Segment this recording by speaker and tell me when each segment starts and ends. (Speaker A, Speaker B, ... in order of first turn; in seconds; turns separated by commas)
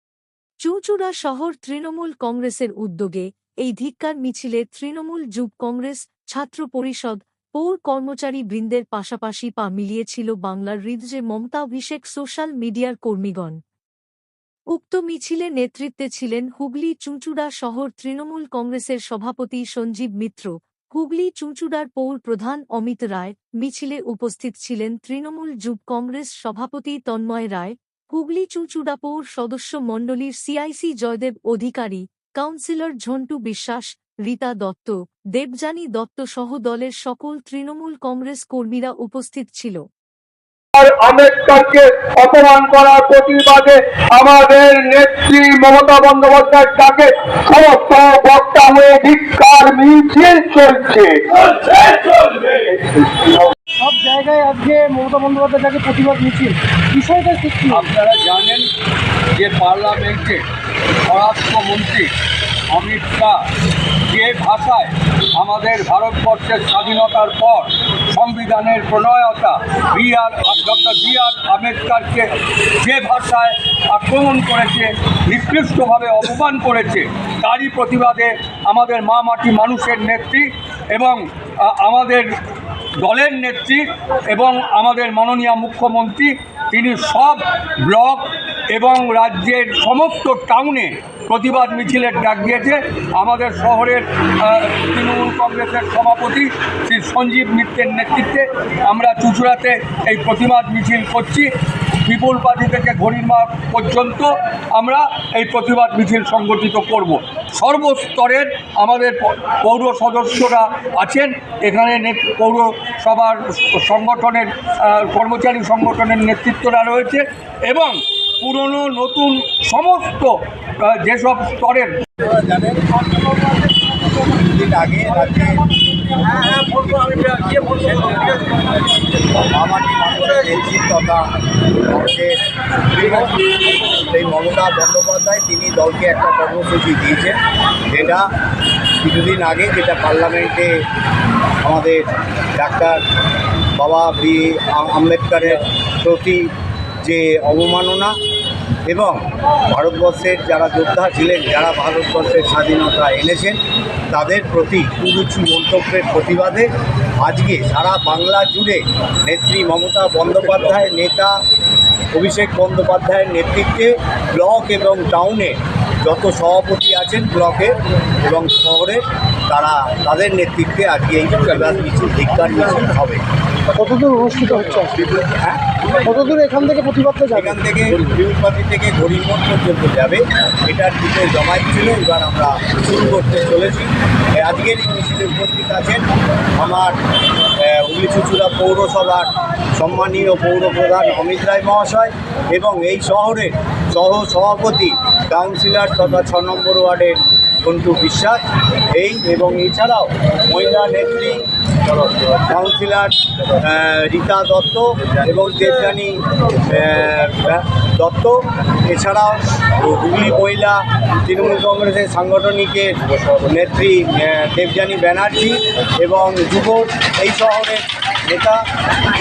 Speaker A: 0.6-13.6, Speaker A: 14.7-39.8, Speaker B: 40.8-53.5, Speaker C: 53.8-57.9, Speaker D: 57.7-58.7, Speaker D: 59.3-60.4, Speaker D: 61.1-62.1, Speaker D: 62.7-63.4, Speaker D: 64.1-82.3, Speaker D: 83.0-101.5, Speaker D: 102.0-122.0, Speaker E: 122.2-123.0, Speaker E: 124.2-128.7, Speaker E: 129.3-131.2, Speaker E: 131.8-137.4, Speaker E: 137.9-138.2, Speaker E: 139.0-140.7, Speaker E: 141.6-143.0, Speaker E: 143.8-146.5, Speaker E: 147.0-148.1, Speaker E: 148.8-153.6, Speaker E: 154.1-156.7, Speaker E: 157.2-161.4, Speaker E: 162.2-173.2, Speaker C: 173.8-175.1, Speaker E: 175.2-175.6, Speaker C: 176.0-177.5, Speaker E: 177.3-186.1, Speaker E: 186.6-187.0, Speaker E: 187.6-198.4, Speaker E: 198.9-201.5, Speaker E: 202.3-218.6